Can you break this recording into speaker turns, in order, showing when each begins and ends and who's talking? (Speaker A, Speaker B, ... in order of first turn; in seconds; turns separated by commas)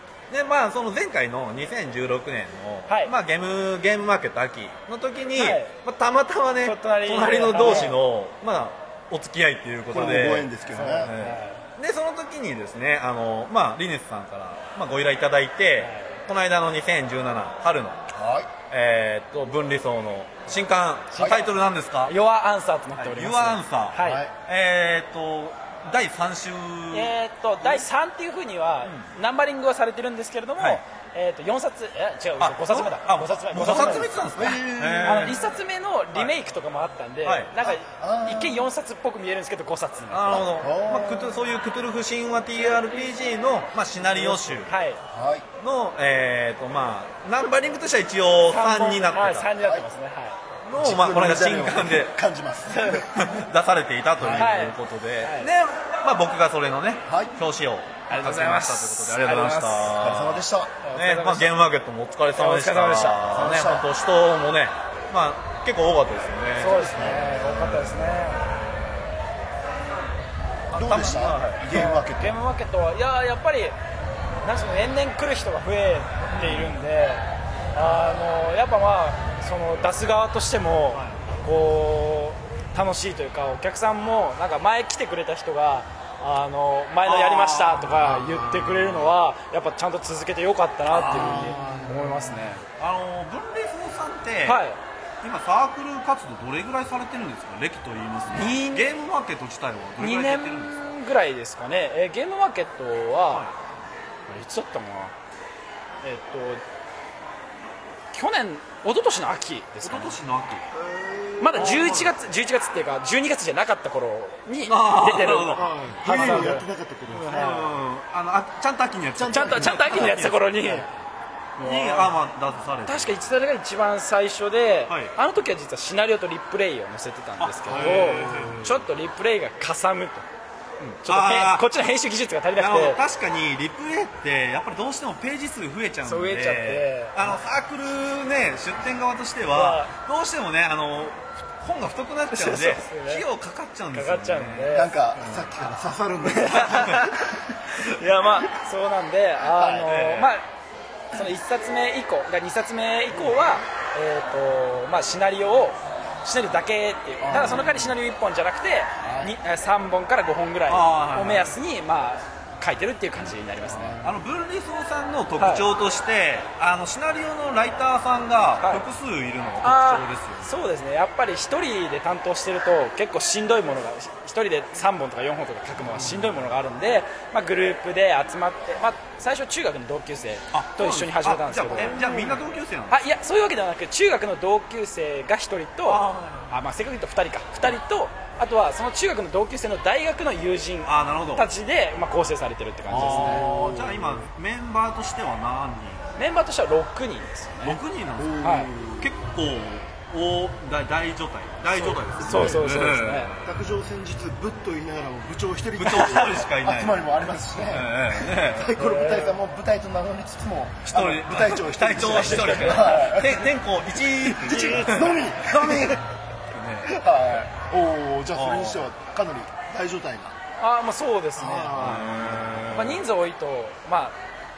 Speaker A: 0.3-18.0, Speaker B: 2.9-3.1, Speaker B: 5.3-5.7, Speaker B: 6.6-8.0, Speaker C: 7.6-7.9, Speaker C: 9.9-11.1, Speaker B: 10.7-11.6, Speaker B: 15.8-16.2, Speaker C: 18.1-18.5, Speaker A: 18.7-22.1, Speaker B: 21.1-24.2, Speaker C: 21.1-21.4, Speaker A: 22.9-27.8, Speaker C: 24.0-24.3, Speaker B: 26.9-40.5, Speaker A: 28.8-29.1, Speaker A: 32.4-35.4, Speaker C: 33.5-35.4, Speaker A: 37.2-37.5, Speaker C: 37.6-38.7, Speaker A: 40.1-44.7, Speaker C: 40.3-41.4, Speaker B: 44.1-45.0, Speaker C: 45.1-45.5, Speaker A: 45.6-49.5, Speaker B: 48.5-50.4, Speaker C: 49.6-49.9, Speaker A: 50.6-52.2, Speaker C: 50.7-53.3, Speaker B: 52.7-53.1, Speaker A: 53.1-68.6, Speaker C: 54.2-54.5, Speaker B: 54.3-55.5, Speaker C: 57.0-57.3, Speaker B: 58.1-60.0, Speaker C: 60.0-60.8, Speaker B: 60.8-61.5, Speaker B: 62.3-63.4, Speaker C: 63.2-63.9, Speaker B: 66.6-68.5, Speaker C: 66.7-67.9, Speaker A: 70.7-71.7, Speaker C: 70.7-72.4, Speaker B: 71.7-73.8, Speaker B: 74.4-92.6, Speaker A: 76.3-76.7, Speaker A: 87.0-89.1, Speaker C: 88.0-88.6, Speaker C: 90.9-92.5, Speaker A: 91.0-91.5, Speaker A: 92.8-94.6, Speaker B: 94.4-94.8, Speaker A: 95.2-100.8, Speaker B: 98.3-98.9, Speaker B: 100.0-103.5, Speaker B: 104.3-105.1, Speaker B: 106.0-106.6, Speaker B: 108.1-110.2, Speaker A: 109.8-110.7, Speaker C: 110.7-112.1, Speaker B: 111.4-117.7, Speaker A: 111.5-112.1, Speaker A: 114.6-116.6, Speaker C: 115.5-117.8, Speaker A: 117.3-120.4, Speaker C: 119.1-120.9, Speaker B: 119.3-120.9, Speaker A: 121.6-123.2, Speaker B: 121.6-122.1, Speaker B: 122.9-130.2, Speaker A: 124.9-125.1, Speaker A: 127.4-128.8, Speaker C: 127.7-128.7, Speaker A: 130.8-131.7, Speaker B: 131.0-133.0, Speaker A: 132.6-145.5, Speaker B: 136.0-137.2, Speaker B: 139.5-139.9, Speaker B: 142.3-143.3, Speaker B: 143.9-144.9, Speaker C: 144.7-147.5, Speaker B: 146.3-150.4, Speaker A: 146.5-147.2, Speaker C: 149.5-149.9, Speaker A: 149.8-150.3, Speaker B: 151.1-164.0, Speaker C: 157.2-157.9, Speaker A: 157.5-157.7, Speaker C: 159.0-159.3, Speaker A: 160.7-161.6, Speaker C: 163.7-164.2, Speaker A: 164.0-170.5, Speaker B: 165.4-165.7, Speaker B: 168.6-168.9, Speaker B: 169.6-182.3, Speaker C: 175.9-176.2, Speaker A: 180.5-183.0, Speaker C: 181.8-182.3, Speaker B: 182.9-193.5, Speaker A: 185.8-186.6, Speaker A: 190.8-191.5, Speaker C: 192.9-194.3, Speaker A: 192.9-196.2, Speaker B: 196.2-197.8, Speaker A: 197.6-203.5, Speaker C: 198.2-199.1, Speaker B: 198.4-198.7, Speaker B: 201.7-203.3, Speaker C: 202.2-202.7, Speaker C: 203.4-216.0, Speaker A: 205.8-207.0, Speaker A: 207.6-208.7, Speaker B: 208.7-209.4, Speaker A: 210.9-217.0, Speaker B: 211.9-213.1, Speaker B: 214.5-215.1, Speaker C: 216.8-220.4, Speaker A: 218.3-218.9, Speaker B: 220.6-222.0, Speaker C: 221.3-222.6, Speaker A: 221.7-223.0, Speaker B: 222.7-224.2